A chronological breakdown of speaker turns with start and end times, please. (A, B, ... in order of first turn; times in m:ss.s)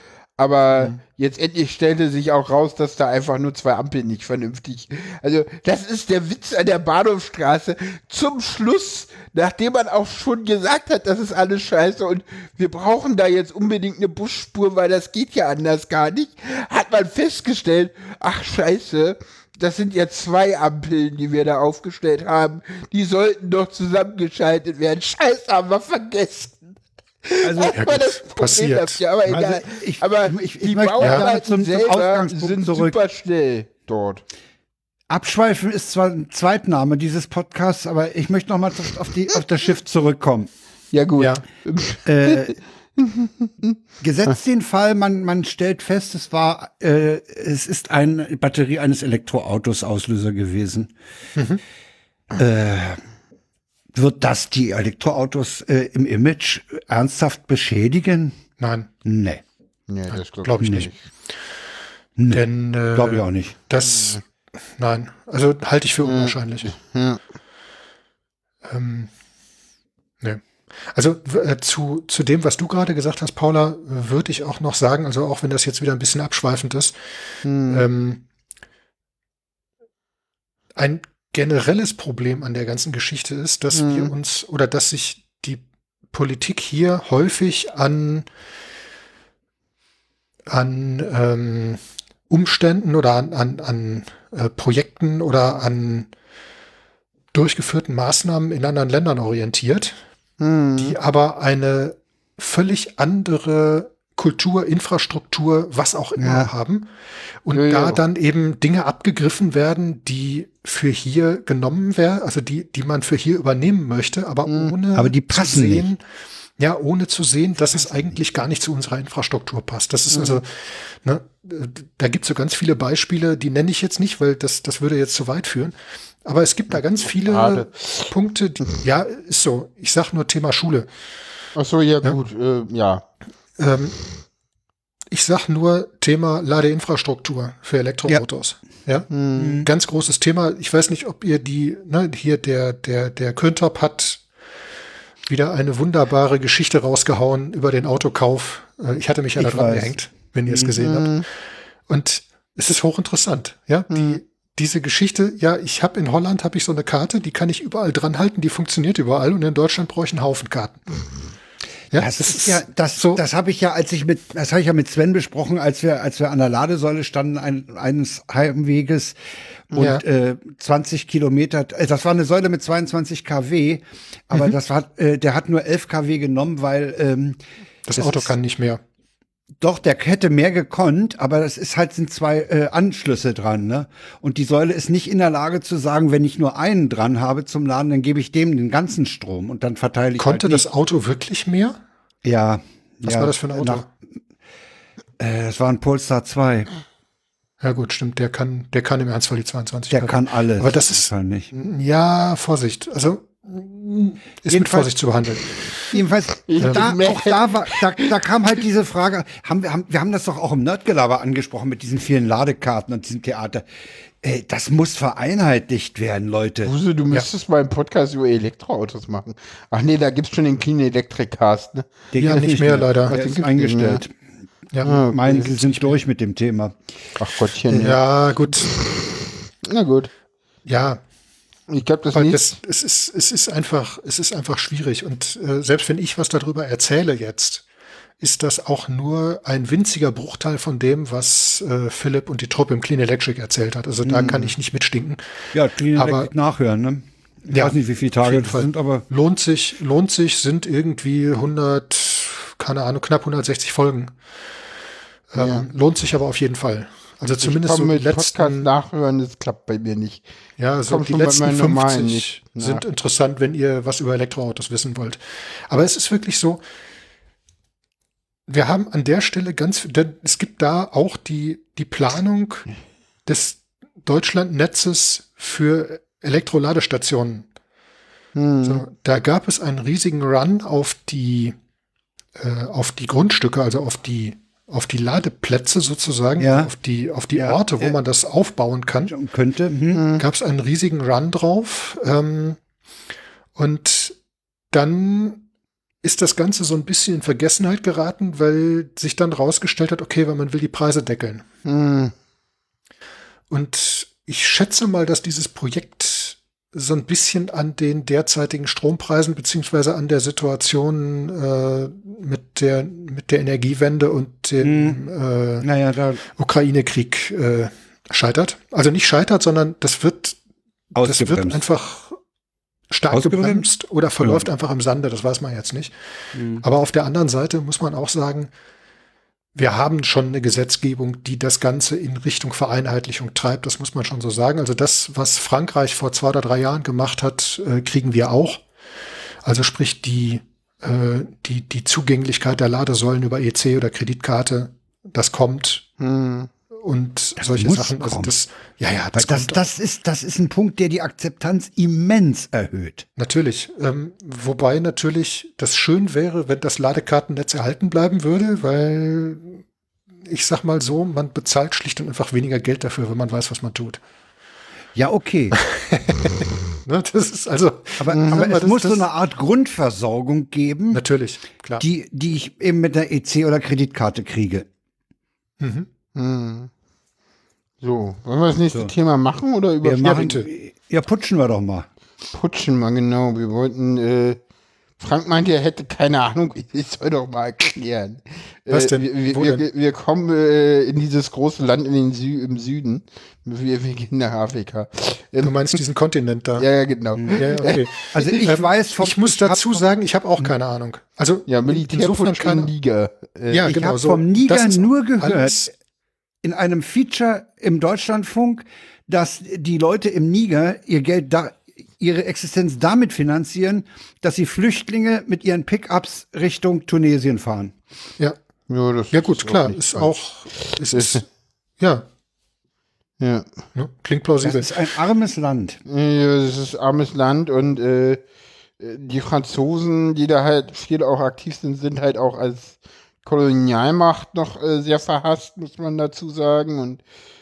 0:00.4-0:26.7 A
0:27.3-0:34.2 A
0:27.4-0:27.8 B
0:27.8-0:29.0 C
0:29.3-0:33.0 B
0:35.1-0:40.5 B
0:40.9-0:42.4 A
0:41.2-0:41.4 C
0:42.1-0:42.6 B
0:43.0-0:44.3 A
0:44.0-0:50.9 B
0:51.4-0:51.6 C
0:52.4-0:53.0 B
0:53.9-0:58.4 B
0:58.6-0:58.9 C
0:59.0-0:59.4 B
0:59.9-1:00.9 A
1:00.1-1:00.9 C
1:00.6-1:00.9 B
1:02.2-1:03.6 B
1:02.3-1:04.2 C
1:03.8-1:04.2 A
1:04.8-1:06.8 C
1:06.0-1:07.2 A
1:08.6-1:09.1 C
1:10.2-1:17.0 C
1:17.4-1:17.8 A
1:17.7-1:18.2 C
1:20.8-1:28.3 C
1:23.7-1:24.1 A
1:30.5-1:36.1 C
1:37.3-1:40.0 C
1:40.4-1:41.0 A
1:40.8-1:46.9 C
1:46.2-1:46.5 B
1:47.4-1:56.0 C
1:47.5-1:48.0 A
1:54.5-1:54.7 A
1:55.0-1:55.9 B
1:56.6-2:10.9 C
2:00.1-2:00.4 A
2:07.3-2:08.1 A
2:11.6-2:13.0 A
2:13.6-2:14.0 C
2:15.1-2:19.1 C
2:19.1-2:19.6 A
2:19.4-2:19.7 B
2:19.6-2:24.2 C
2:25.3-2:40.9 C
2:29.4-2:30.0 B
2:30.5-2:30.8 B
2:30.8-2:31.2 A
2:33.9-2:34.2 A
2:41.9-2:43.2 C
2:41.9-2:49.2 B
2:49.7-2:57.4 B
2:49.8-2:50.0 C
2:57.9-2:58.8 C
2:58.0-2:58.3 B
2:59.6-3:10.7 B
3:10.2-3:11.8 C
3:12.2-3:13.8 B
3:13.0-3:13.9 C
3:15.2-3:16.7 B
3:17.6-3:26.0 C
3:19.9-3:21.5 B
3:24.5-3:24.9 B
3:25.9-3:33.7 B
3:26.5-3:28.1 A
3:26.6-3:26.9 C
3:34.2-3:36.7 B
3:36.6-3:41.9 A
3:42.1-3:44.1 B
3:42.2-3:43.2 C
3:43.1-3:44.0 A
3:44.7-3:46.0 C
3:44.8-3:45.6 A
3:44.8-3:46.8 B
3:47.2-3:50.1 A
3:47.8-3:48.7 C
3:50.7-3:51.0 C
3:51.7-3:52.5 A
3:52.1-3:57.7 C
3:58.2-4:06.3 C
4:04.0-4:04.5 B
4:05.5-4:09.0 B
4:07.5-4:14.1 C
4:15.3-4:18.7 C
4:15.4-4:15.7 A
4:17.4-4:20.2 A
4:20.6-4:26.6 C
4:20.9-4:22.8 A
4:28.5-4:32.7 C
4:33.3-4:37.5 C
4:38.4-4:38.8 A
4:38.6-4:41.6 C
4:42.4-4:49.1 C
4:46.4-4:46.7 B
4:47.4-4:48.0 B
4:49.1-4:50.0 B
4:49.9-4:50.2 A
4:50.2-4:52.6 C
4:53.6-4:54.2 C
4:54.7-4:55.4 C
4:56.0-5:01.4 C
5:01.7-5:02.1 A
5:03.5-5:15.7 C
5:14.6-5:15.0 B
5:15.6-5:16.2 B
5:16.4-5:20.4 C
5:21.0-5:21.6 B
5:21.0-5:22.2 C
5:22.9-5:26.0 C
5:23.1-5:23.7 B
5:24.2-5:24.5 B
5:26.4-5:26.6 B
5:26.6-5:28.5 C
5:29.6-5:38.6 C
5:39.4-5:45.9 C
5:46.0-5:46.5 A
5:46.8-5:49.6 C
5:47.4-5:48.4 B
5:49.1-5:53.1 B
5:53.2-5:59.6 C
6:00.3-6:04.0 C
6:05.0-6:05.6 B
6:05.6-6:09.0 C
6:08.0-6:11.0 B
6:10.9-6:11.8 C
6:11.8-6:14.7 B
6:15.6-6:15.9 C
6:16.2-6:16.7 A
6:17.8-6:20.3 A
6:19.8-6:21.9 B
6:20.1-6:20.5 C
6:22.3-6:24.4 A
6:25.0-6:35.5 A
6:28.7-6:29.6 C
6:35.4-6:36.7 C
6:36.6-6:37.8 A
6:37.4-6:42.7 C
6:38.1-6:39.8 B
6:41.5-6:43.7 A
6:43.5-6:45.7 C
6:43.6-6:45.7 B
6:46.4-6:57.7 B
6:58.7-7:01.2 A
6:59.1-7:01.3 C
7:01.8-7:02.1 C
7:03.2-7:03.5 A
7:03.8-7:04.8 C
7:04.4-7:05.8 B
7:05.9-7:08.2 A
7:08.8-7:17.0 A